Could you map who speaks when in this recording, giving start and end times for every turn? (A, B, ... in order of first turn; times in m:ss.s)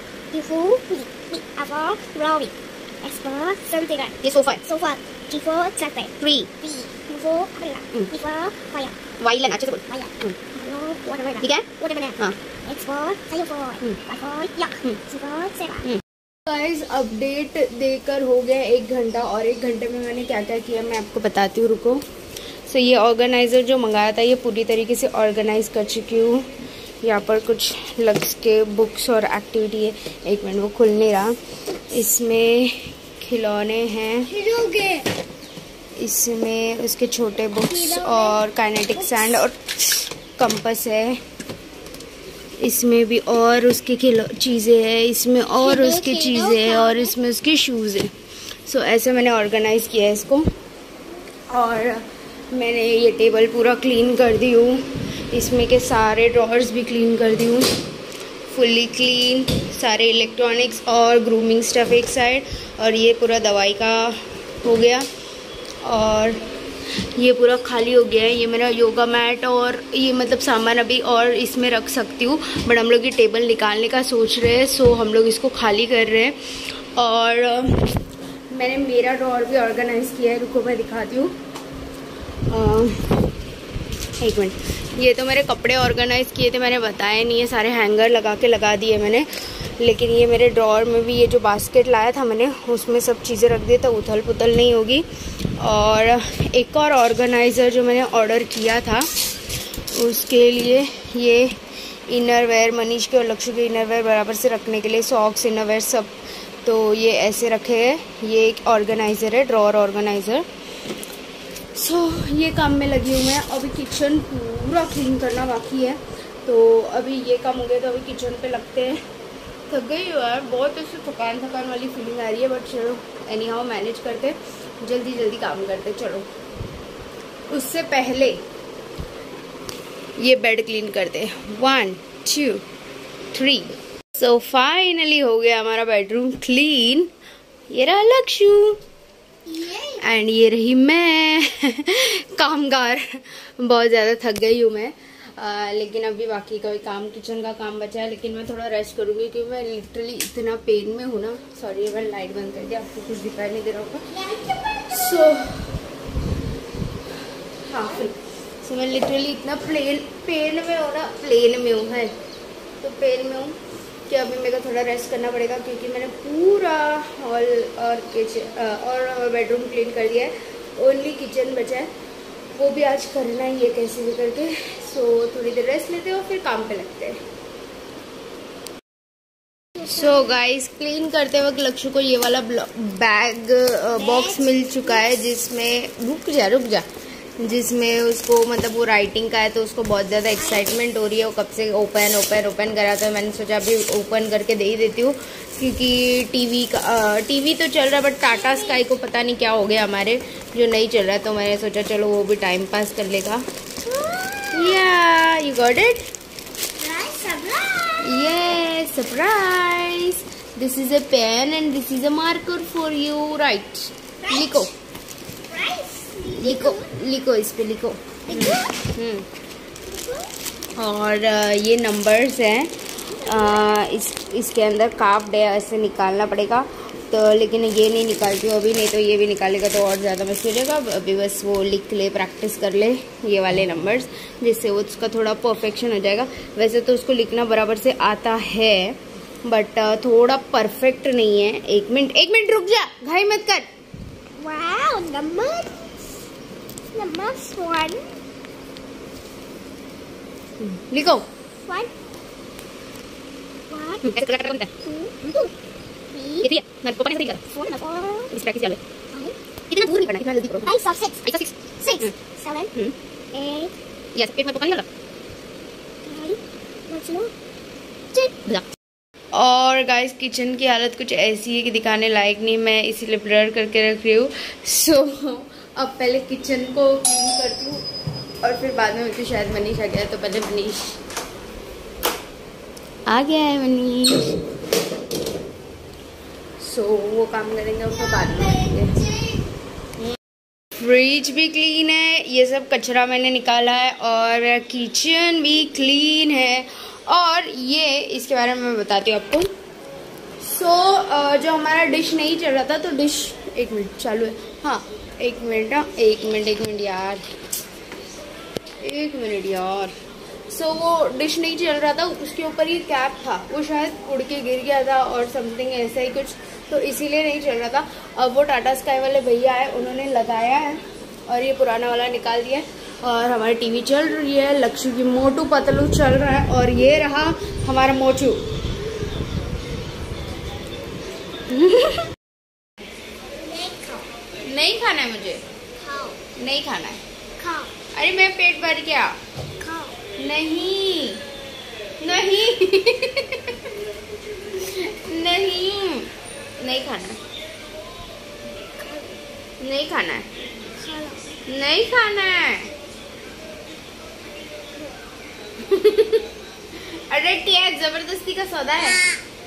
0:00.3-0:09.0 A
0:04.2-0:04.6 B
0:06.2-0:06.5 B
0:09.2-0:10.3 B
0:09.7-0:15.9 A
0:16.5-0:22.0 B
0:22.7-0:26.5 B
0:27.0-0:31.4 B
0:31.9-0:34.3 B
0:34.3-0:35.0 A
0:36.0-0:41.2 B
0:37.6-0:38.4 A
0:39.0-0:39.3 A
0:42.6-0:48.1 B
0:45.6-0:47.1 A
0:48.6-0:50.4 B
0:51.5-0:57.7 B
0:58.5-1:05.1 B
1:05.8-1:06.4 B
1:07.2-1:16.4 B
1:17.0-1:18.0 B
1:18.5-1:21.3 B
1:22.5-1:23.2 B
1:24.2-1:35.0 B
1:35.6-1:39.1 B
1:39.9-1:41.6 B
1:42.1-1:46.1 B
1:46.6-1:50.4 B
1:51.8-1:59.0 B
1:59.7-2:06.3 B
2:07.5-2:08.4 B
2:10.2-2:12.6 B
2:13.3-2:17.1 B
2:17.7-2:18.8 B
2:19.5-2:20.0 A
2:20.0-2:34.0 B
2:34.1-2:35.2 A
2:34.9-2:35.8 B
2:37.6-2:42.1 B
2:42.8-2:43.6 B
2:44.1-2:51.9 B
2:52.6-2:57.2 B
2:59.8-3:06.9 B
3:04.1-3:04.4 A
3:07.4-3:23.4 B
3:18.3-3:18.8 A
3:23.8-3:24.8 A
3:24.5-3:26.1 B
3:26.8-3:28.3 A
3:28.0-3:34.7 B
3:34.2-3:34.7 A
3:35.5-3:36.9 A
3:36.4-3:39.3 B
3:38.3-3:38.7 A
3:39.9-3:40.3 A
3:40.8-3:42.7 B
3:43.2-3:43.6 A
3:43.2-4:03.7 B
4:04.4-4:05.8 A
4:06.9-4:08.0 A
4:10.6-4:11.2 B
4:11.7-4:11.9 A
4:13.7-4:14.1 A
4:14.0-4:14.7 B
4:14.8-4:15.5 A
4:16.1-4:16.6 A
4:16.4-4:17.4 B
4:17.5-4:18.3 A
4:18.3-4:18.8 B
4:19.7-4:20.7 B
4:20.6-4:22.7 A
4:23.3-4:23.7 A
4:24.2-4:24.8 B
4:26.0-4:27.3 A
4:29.3-4:37.8 B
4:38.4-4:41.0 B
4:43.1-4:44.3 B
4:46.6-4:49.0 B
4:50.8-4:59.5 B
5:00.4-5:07.2 B
5:08.8-5:09.9 B
5:10.5-5:28.4 B
5:31.5-5:32.0 B
5:33.4-5:34.1 A
5:34.5-5:35.4 B
5:35.8-5:36.2 A
5:36.4-5:37.0 B
5:37.4-5:37.7 A
5:38.0-5:39.2 B
5:39.6-5:40.0 A
5:40.2-5:41.2 B
5:42.0-5:43.5 B
5:44.6-5:46.1 B
5:46.6-5:47.2 B
5:48.8-5:49.2 A
5:49.6-5:50.2 B
5:50.8-5:51.2 A
5:51.5-5:52.7 B
5:55.6-5:56.3 B
5:57.1-5:59.0 B